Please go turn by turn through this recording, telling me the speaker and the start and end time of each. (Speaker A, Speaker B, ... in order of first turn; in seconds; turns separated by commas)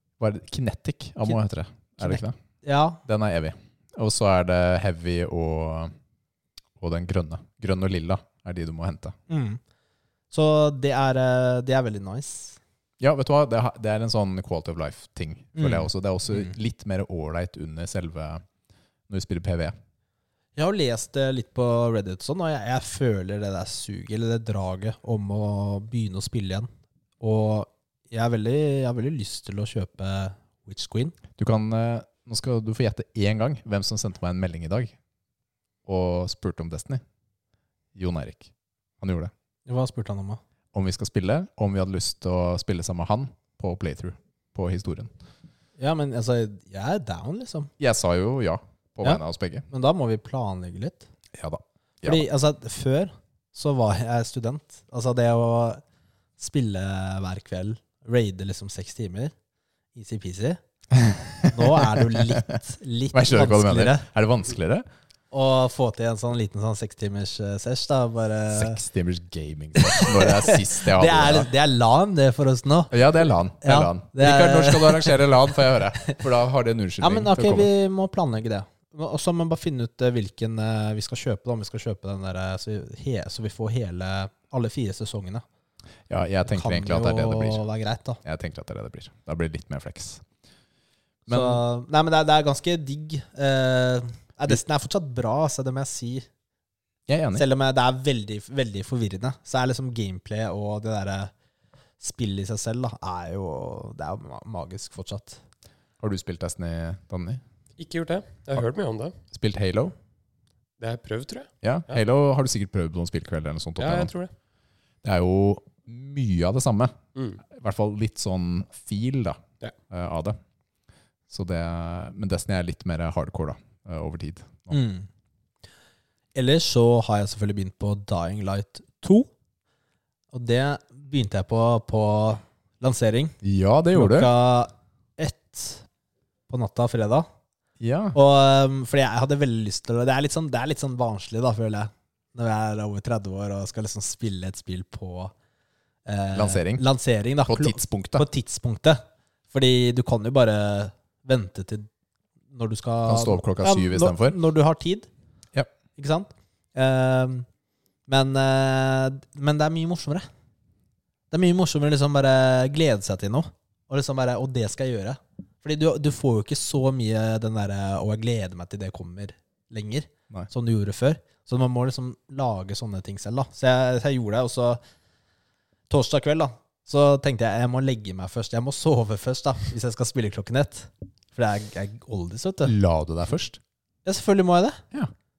Speaker A: 0.2-2.4, Speaker B: 2.0-3.0, Speaker A: 3.0-5.9, Speaker A: 6.8-9.1, Speaker B: 9.3-9.6, Speaker B: 10.3-12.6, Speaker A: 13.0-18.4, Speaker B: 15.6-16.5, Speaker A: 19.1-19.7, Speaker B: 20.6-26.7, Speaker B: 27.2-31.1, Speaker A: 31.4-34.9, Speaker A: 35.9-37.0, Speaker A: 37.9-38.5, Speaker A: 39.0-39.3, Speaker B: 39.7-40.4, Speaker A: 40.7-45.1, Speaker B: 45.8-47.7, Speaker A: 47.8-49.6, Speaker B: 49.0-51.1, Speaker A: 51.3-52.2, Speaker B: 52.0-55.8, Speaker B: 56.4-59.3, Speaker B: 59.9-60.6, Speaker A: 60.9-62.6, Speaker B: 61.5-64.0, Speaker A: 63.1-64.9, Speaker B: 65.3-68.8, Speaker A: 68.5-71.5, Speaker B: 69.8-72.9, Speaker A: 72.9-77.7, Speaker B: 73.6-75.3, Speaker B: 77.0-85.4, Speaker A: 86.1-87.6, Speaker B: 86.5-88.2, Speaker A: 88.2-90.2, Speaker A: 91.3-91.6, Speaker B: 91.3-96.2, Speaker A: 97.1-97.4, Speaker B: 97.3-101.3, Speaker B: 102.0-105.4, Speaker A: 106.0-107.4, Speaker C: 107.8-109.1, Speaker A: 109.3-109.9, Speaker C: 110.8-112.0, Speaker A: 111.6-114.1, Speaker C: 113.8-114.3, Speaker A: 115.0-119.4, Speaker C: 117.1-117.4, Speaker A: 119.9-120.4, Speaker A: 121.3-124.7, Speaker B: 124.7-125.1, Speaker B: 126.3-129.3, Speaker B: 130.3-133.4, Speaker A: 133.4-134.3, Speaker B: 133.9-135.9, Speaker B: 136.5-137.3, Speaker A: 137.8-138.2, Speaker B: 138.1-145.3, Speaker B: 146.1-151.9, Speaker A: 146.3-146.8, Speaker A: 147.4-148.2, Speaker B: 152.5-155.1, Speaker A: 153.1-154.4, Speaker B: 155.9-157.5, Speaker B: 158.1-160.3, Speaker B: 161.3-174.8, Speaker B: 175.9-182.7, Speaker A: 182.6-183.6, Speaker B: 184.0-184.8